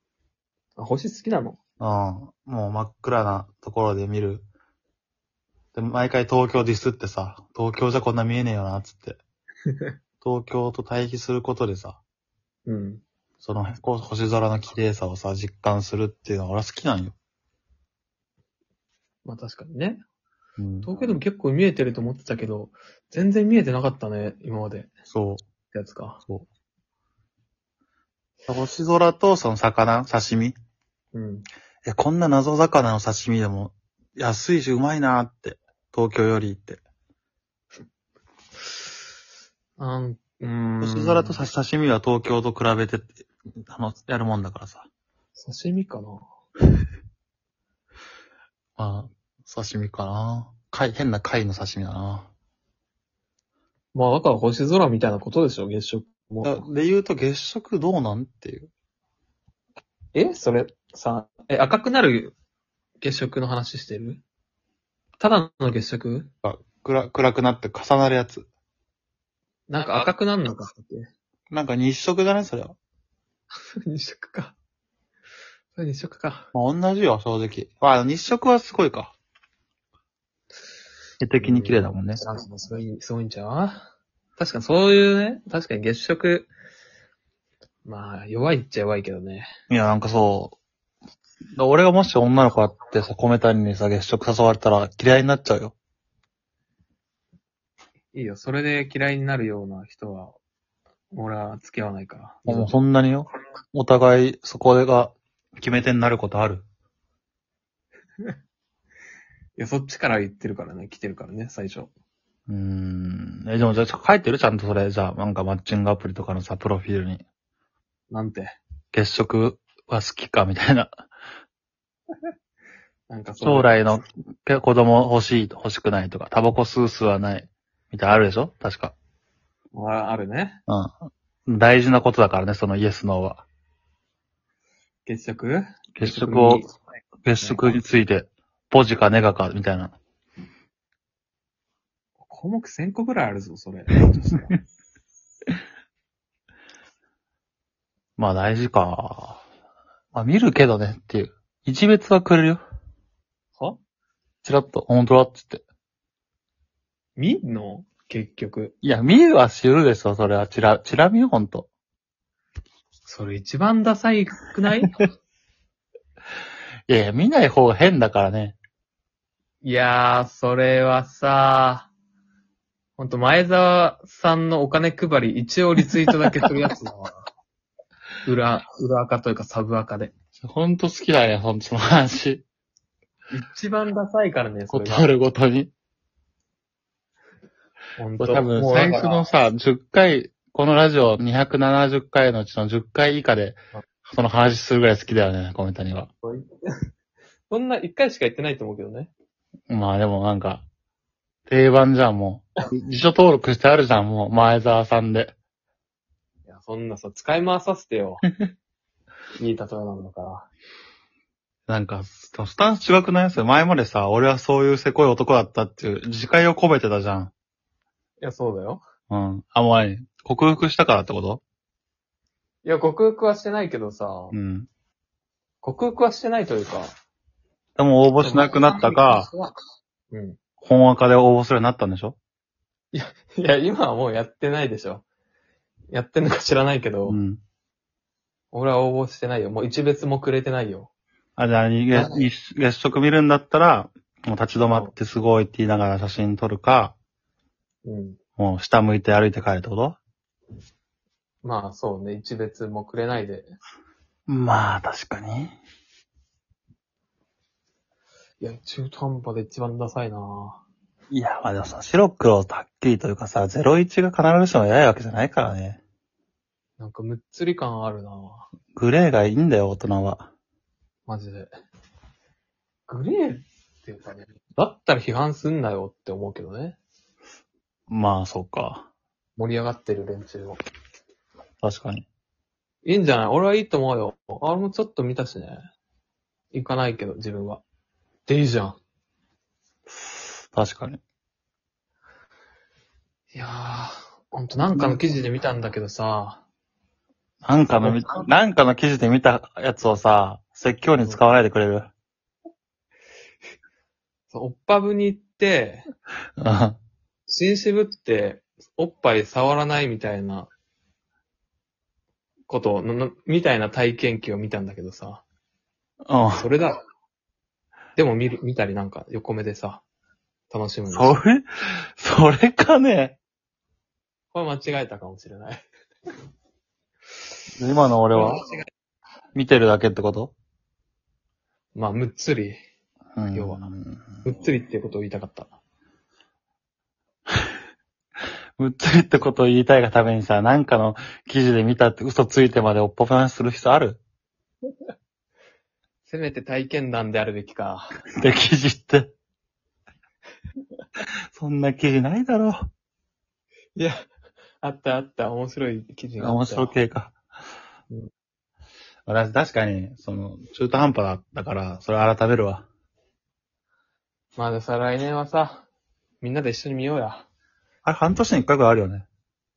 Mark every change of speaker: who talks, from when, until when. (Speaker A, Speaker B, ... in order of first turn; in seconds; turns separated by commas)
Speaker A: 0.8-1.6, Speaker B: 1.8-4.5, Speaker B: 5.8-9.2, Speaker B: 10.2-12.0, Speaker A: 12.7-13.0, Speaker B: 13.4-17.2, Speaker A: 19.2-20.0, Speaker B: 20.6-21.2, Speaker A: 20.9-24.9, Speaker B: 25.1-25.4, Speaker A: 25.7-26.2, Speaker B: 28.5-30.6, Speaker A: 31.1-31.5, Speaker B: 31.9-36.8, Speaker A: 39.8-41.4, Speaker B: 40.8-44.9, Speaker A: 45.4-46.2, Speaker B: 48.8-52.3, Speaker A: 53.9-56.6, Speaker B: 56.4-58.7, Speaker A: 60.1-62.4, Speaker A: 63.0-64.2, Speaker A: 65.2-66.3, Speaker B: 66.4-68.5, Speaker A: 69.7-71.1, Speaker B: 69.8-70.1, Speaker B: 71.5-72.8, Speaker A: 73.9-74.6, Speaker A: 75.8-76.5, Speaker B: 76.5-79.2, Speaker B: 81.2-82.2, Speaker A: 81.4-86.5, Speaker A: 87.8-89.5, Speaker B: 89.7-90.6, Speaker B: 91.6-95.8, Speaker A: 98.1-100.4, Speaker A: 101.1-102.8, Speaker B: 102.5-106.7, Speaker A: 109.6-111.9, Speaker B: 112.5-117.2, Speaker A: 118.1-118.6, Speaker B: 118.9-121.0, Speaker A: 123.1-124.0, Speaker B: 123.4-128.9, Speaker A: 129.7-130.6, Speaker B: 130.7-130.9, Speaker B: 131.5-133.5, Speaker A: 135.1-136.7, Speaker B: 136.0-136.7, Speaker B: 137.2-140.0, Speaker A: 137.4-137.8, Speaker A: 142.2-144.5, Speaker B: 148.2-149.4, Speaker B: 150.1-152.6, Speaker B: 154.4-155.6, Speaker A: 157.2-158.8, Speaker B: 158.8-161.7, Speaker A: 163.1-164.9, Speaker B: 166.9-168.6, Speaker A: 169.6-171.9, Speaker A: 173.0-177.2, Speaker A: 178.3-180.1, Speaker B: 180.4-182.4, Speaker A: 183.3-185.1, Speaker B: 184.7-185.7, Speaker A: 188.0-189.3, Speaker B: 188.2-196.1, Speaker A: 196.2-196.5, Speaker A: 197.5-199.1, Speaker B: 199.7-200.7, Speaker B: 201.5-205.3, Speaker A: 206.5-208.2, Speaker A: 209.4-210.5, Speaker B: 211.7-217.3, Speaker A: 218.2-218.8, Speaker B: 219.1-221.4, Speaker A: 222.6-224.4, Speaker B: 224.3-224.7, Speaker A: 225.6-226.9, Speaker B: 227.8-229.3, Speaker A: 228.2-229.6, Speaker A: 230.1-230.4, Speaker B: 230.6-232.2, Speaker A: 232.9-235.0, Speaker A: 235.9-237.2, Speaker B: 237.1-237.4, Speaker A: 238.5-240.9, Speaker B: 241.4-247.0, Speaker A: 241.9-242.2, Speaker A: 247.8-248.2, Speaker B: 248.4-250.0, Speaker A: 251.4-253.5, Speaker B: 254.3-255.6, Speaker A: 258.4-260.6, Speaker B: 261.1-265.8, Speaker A: 266.8-268.5, Speaker B: 268.8-270.3, Speaker A: 271.1-271.5, Speaker A: 272.9-276.8, Speaker B: 277.9-278.9, Speaker A: 279.4-280.6, Speaker B: 281.6-282.1, Speaker A: 282.8-285.6, Speaker A: 286.5-287.6, Speaker A: 288.3-288.8, Speaker B: 290.5-291.0, Speaker A: 293.3-296.4, Speaker B: 294.6-295.0, Speaker B: 297.4-301.9, Speaker A: 297.8-298.1, Speaker A: 301.0-301.2, Speaker A: 304.3-305.9, Speaker B: 306.4-306.8, Speaker A: 307.3-310.5, Speaker A: 312.5-315.2, Speaker B: 316.1-316.5, Speaker A: 316.4-316.8, Speaker A: 318.0-319.8, Speaker A: 320.5-321.2, Speaker B: 320.9-323.2, Speaker A: 324.3-325.6, Speaker B: 327.6-328.4, Speaker A: 328.1-328.7, Speaker B: 329.4-330.3, Speaker A: 331.8-332.6, Speaker B: 333.2-334.0, Speaker A: 333.3-333.6, Speaker A: 334.2-335.6, Speaker B: 338.6-344.0, Speaker A: 346.1-348.0, Speaker B: 348.2-349.1, Speaker B: 351.3-352.6, Speaker A: 353.8-354.1, Speaker A: 354.6-356.7, Speaker B: 356.2-357.2, Speaker B: 359.1-362.7, Speaker A: 364.4-365.7, Speaker A: 366.2-367.3, Speaker B: 367.9-369.1